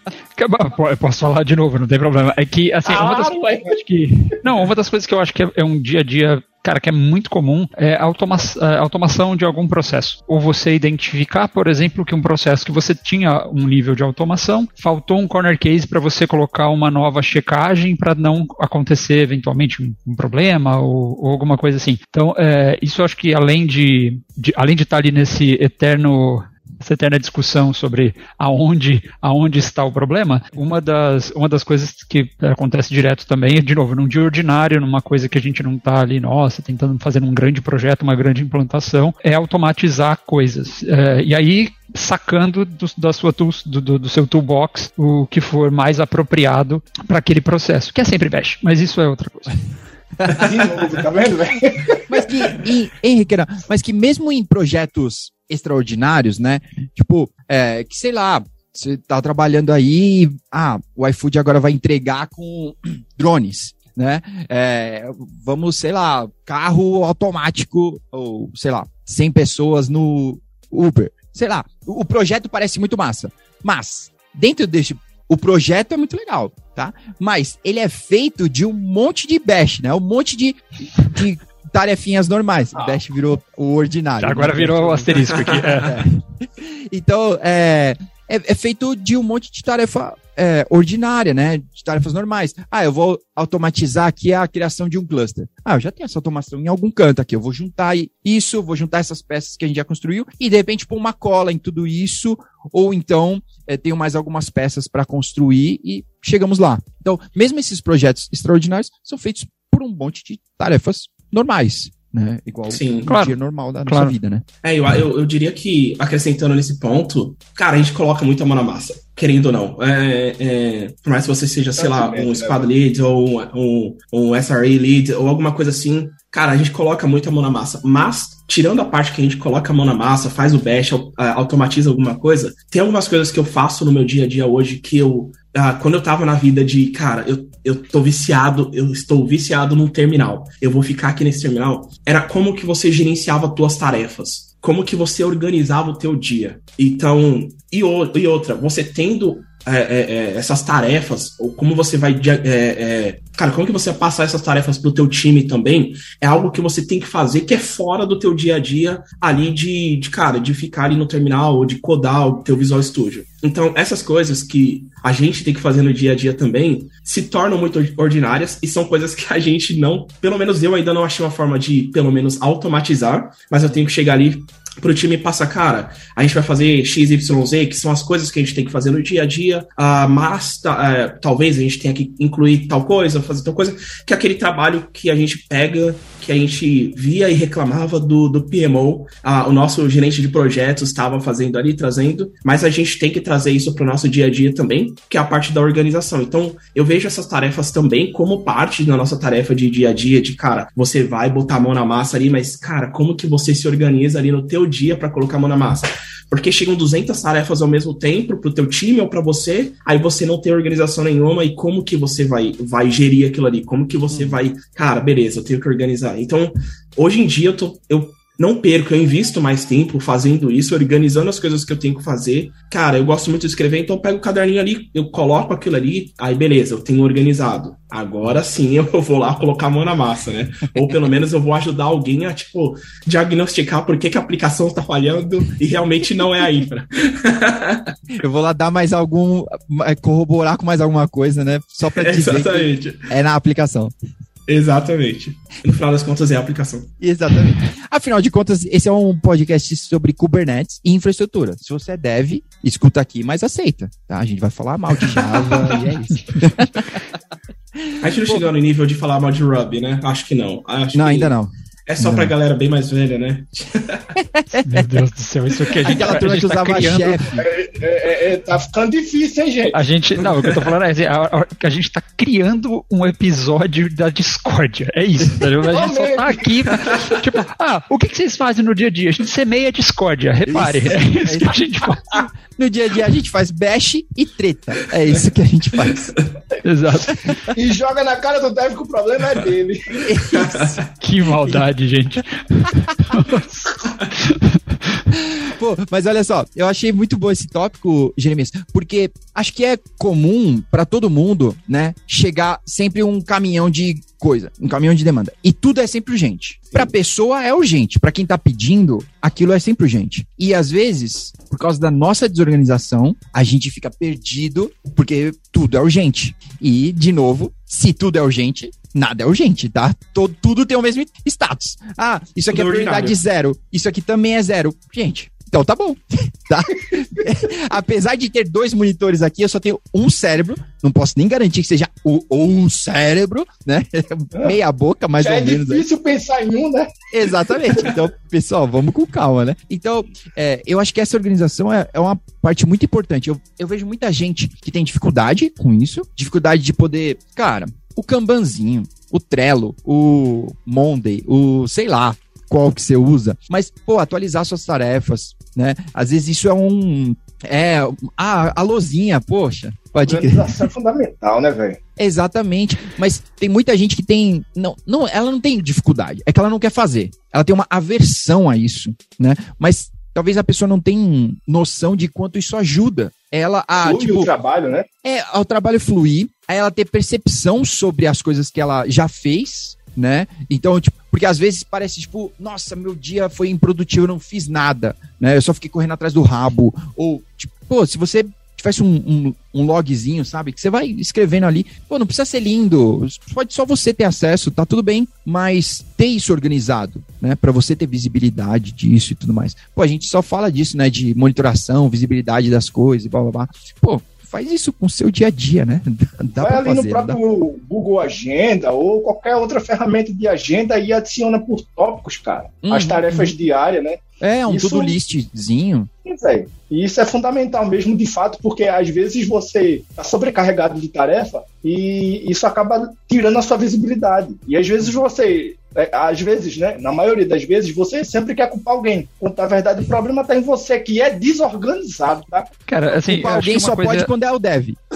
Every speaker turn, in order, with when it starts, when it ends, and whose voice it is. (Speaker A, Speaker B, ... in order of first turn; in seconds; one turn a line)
Speaker A: 0.3-49.6
Speaker B: 2.9-3.7
Speaker B: 50.3-52.3
Speaker C: 52.1-114.4
Speaker A: 84.2-86.0
Speaker D: 112.7-113.2
Speaker A: 113.0-114.2
Speaker D: 114.6-237.9
Speaker B: 121.8-122.7
Speaker C: 214.1-214.4
Speaker C: 238.2-243.9
Speaker D: 241.9-243.1
Speaker D: 244.5-246.9
Speaker C: 247.0-256.8
Speaker D: 255.1-255.6
Speaker C: 257.9-258.5
Speaker D: 258.0-261.4
Speaker C: 260.9-262.3
Speaker D: 261.9-264.1
Speaker C: 264.3-264.6
Speaker A: 264.6-267.2
Speaker C: 265.8-267.4
Speaker B: 267.3-269.9
Speaker A: 269.7-282.0
Speaker B: 275.6-276.7
Speaker C: 280.5-286.1
Speaker A: 286.6-287.5
Speaker B: 287.5-290.1
Speaker C: 290.0-290.8
Speaker D: 290.3-290.9
Speaker A: 291.0-295.0
Speaker C: 295.1-335.8
Speaker D: 322.5-323.2
Speaker B: 335.2-337.0
Speaker C: 337.1-360.7
Speaker B: 360.1-361.8
Speaker C: 362.0-374.3
Speaker B: 373.8-374.9
Speaker C: 375.0-407.2
Speaker B: 406.4-414.9
Speaker C: 412.6-413.3
Speaker C: 414.2-415.9
Speaker B: 416.1-432.5
Speaker A: 432.7-434.1
Speaker C: 432.9-434.8